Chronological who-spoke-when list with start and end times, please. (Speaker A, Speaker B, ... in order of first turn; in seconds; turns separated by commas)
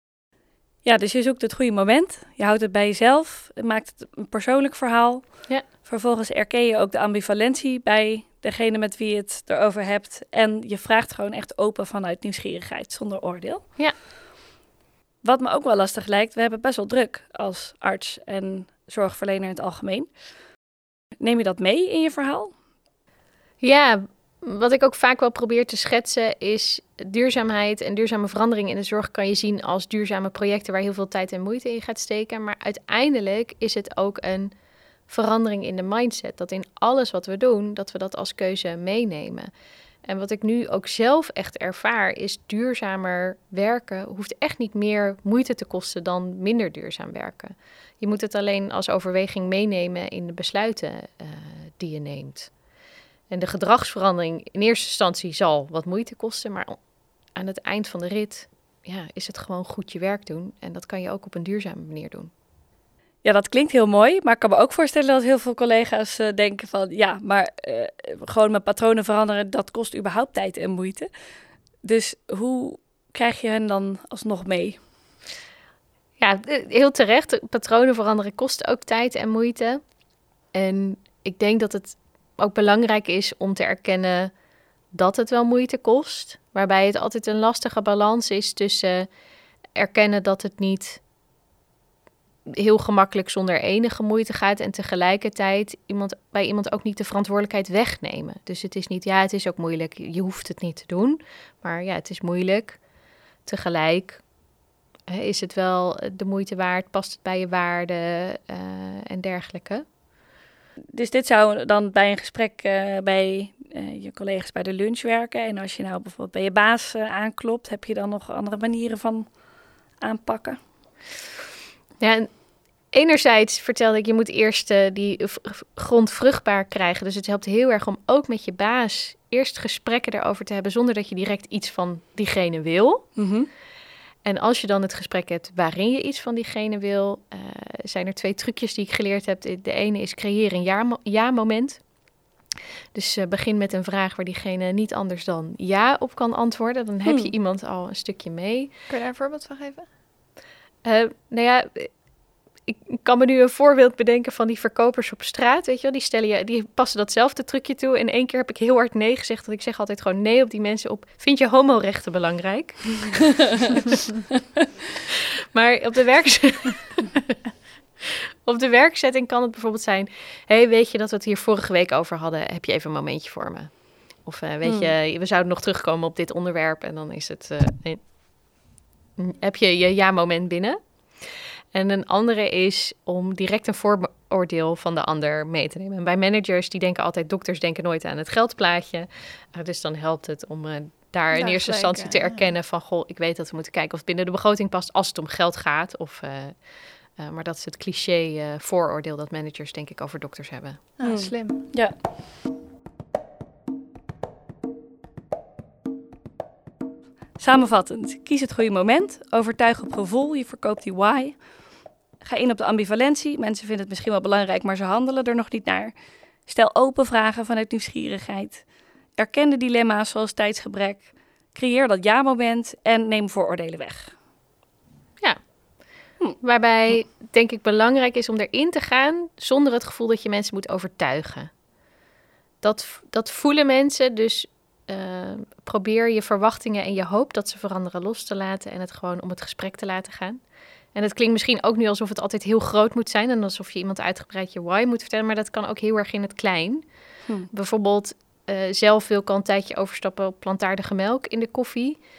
Speaker A: 0.8-13.7, Speaker A: 15.2-20.1, Speaker A: 21.2-22.5, Speaker B: 23.6-34.5, Speaker B: 35.1-39.5, Speaker B: 40.1-52.5, Speaker B: 53.3-56.8, Speaker B: 57.4-62.3, Speaker A: 63.2-71.1, Speaker A: 71.8-74.8, Speaker B: 76.2-79.8, Speaker B: 80.5-84.3, Speaker B: 84.9-89.1, Speaker B: 89.8-91.0, Speaker B: 92.5-102.8, Speaker B: 103.5-104.2, Speaker B: 105.1-109.8, Speaker A: 110.9-119.3, Speaker A: 120.0-120.6, Speaker B: 122.0-122.3, Speaker B: 122.9-133.1, Speaker A: 133.2-133.5, Speaker B: 134.2-141.8, Speaker B: 142.9-148.7, Speaker A: 147.1-147.3, Speaker C: 148.9-149.9, Speaker B: 150.8-151.9, Speaker B: 152.7-163.3, Speaker B: 165.5-167.3, Speaker B: 168.4-178.0, Speaker A: 174.6-174.9, Speaker B: 179.2-196.6, Speaker C: 191.3-192.5, Speaker B: 197.2-201.4, Speaker C: 201.0-201.6, Speaker A: 201.0-202.0, Speaker A: 207.4-211.5, Speaker A: 212.2-215.9, Speaker A: 216.5-224.1, Speaker B: 226.4-231.5, Speaker B: 232.6-240.4, Speaker B: 240.9-246.8, Speaker B: 247.5-252.0